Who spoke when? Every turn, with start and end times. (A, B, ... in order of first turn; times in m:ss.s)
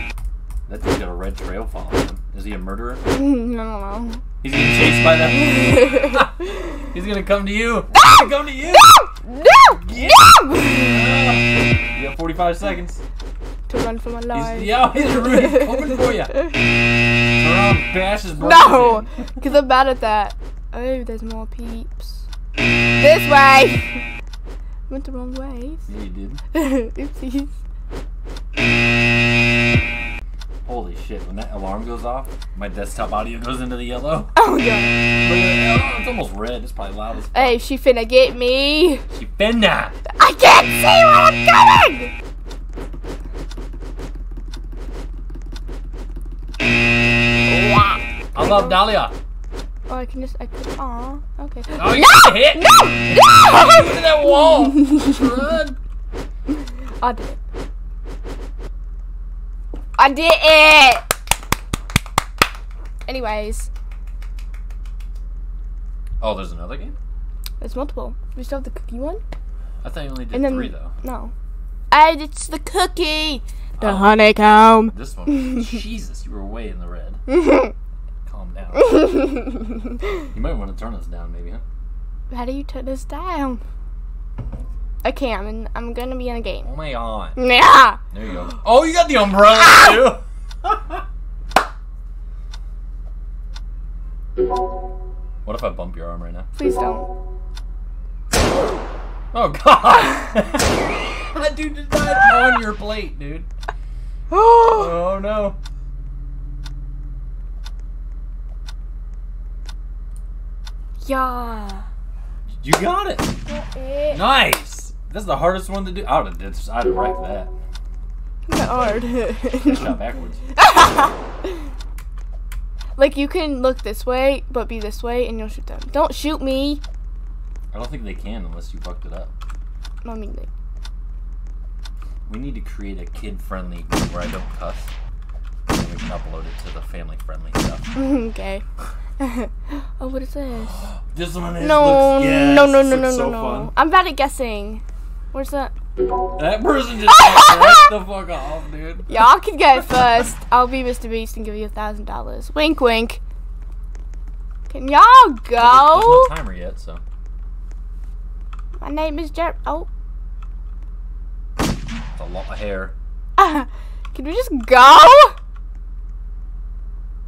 0:00.7-0:03.0 A
0:03.1-0:04.2 B
0:04.4-0:09.0 A
0:05.5-0:06.3 B
0:08.0-0:11.1 B
0:09.6-0:10.3 A
0:10.8-0:13.0 A
0:13.7-0:16.5 B
0:14.3-0:16.4 A
0:17.3-0:19.4 A
0:18.4-0:22.3 B
0:23.0-0:24.0 B
0:24.9-0:25.9 B
0:25.9-0:26.4 A
0:26.5-0:27.6 B
0:30.6-0:34.4 A
0:34.4-0:34.9 B
0:35.1-0:37.6 A
0:37.3-0:39.0 B
0:39.1-0:40.0 A
0:40.2-0:42.1 B
0:47.5-0:48.8 B
0:48.4-0:49.2 A
0:49.9-0:55.3 B
0:51.8-0:55.8 A
0:56.5-0:57.4 B
1:00.0-1:01.1 B
1:03.1-1:03.7 B
1:06.2-1:07.0 A
1:07.6-1:09.2 B
1:09.8-1:10.9 A
1:10.3-1:11.3 B
1:11.9-1:15.6 B
1:13.8-1:14.2 A
1:14.9-1:17.2 A
1:17.3-1:17.7 B
1:18.2-1:18.9 A
1:18.7-1:19.9 B
1:20.3-1:21.6 A
1:22.3-1:23.6 B
1:25.0-1:26.7 B
1:26.6-1:27.4 A
1:27.4-1:28.0 B
1:28.1-1:31.0 A
1:35.4-1:36.5 A
1:36.6-1:37.1 B
1:39.3-1:43.5 A
1:44.3-1:44.9 B
1:44.6-1:45.6 A
1:51.0-1:51.9 B
1:52.6-1:53.4 A
1:53.5-1:54.2 B
1:54.1-1:57.5 A
1:58.5-2:00.0 B
1:59.5-2:00.5 A
2:00.6-2:01.5 B
2:03.0-2:06.8 B
2:07.7-2:09.3 A
2:10.0-2:10.5 B
2:12.3-2:14.9 A
2:15.7-2:17.9 A
2:18.0-2:18.6 B
2:19.2-2:20.8 B
2:20.7-2:23.7 A
2:21.6-2:24.8 B
2:25.3-2:25.7 B
2:26.4-2:29.1 A
2:27.1-2:27.9 B
2:29.1-2:33.2 B
2:34.7-2:36.3 B
2:35.6-2:37.0 A
2:38.8-2:39.9 B
2:42.2-2:43.0 A
2:43.4-2:45.4 B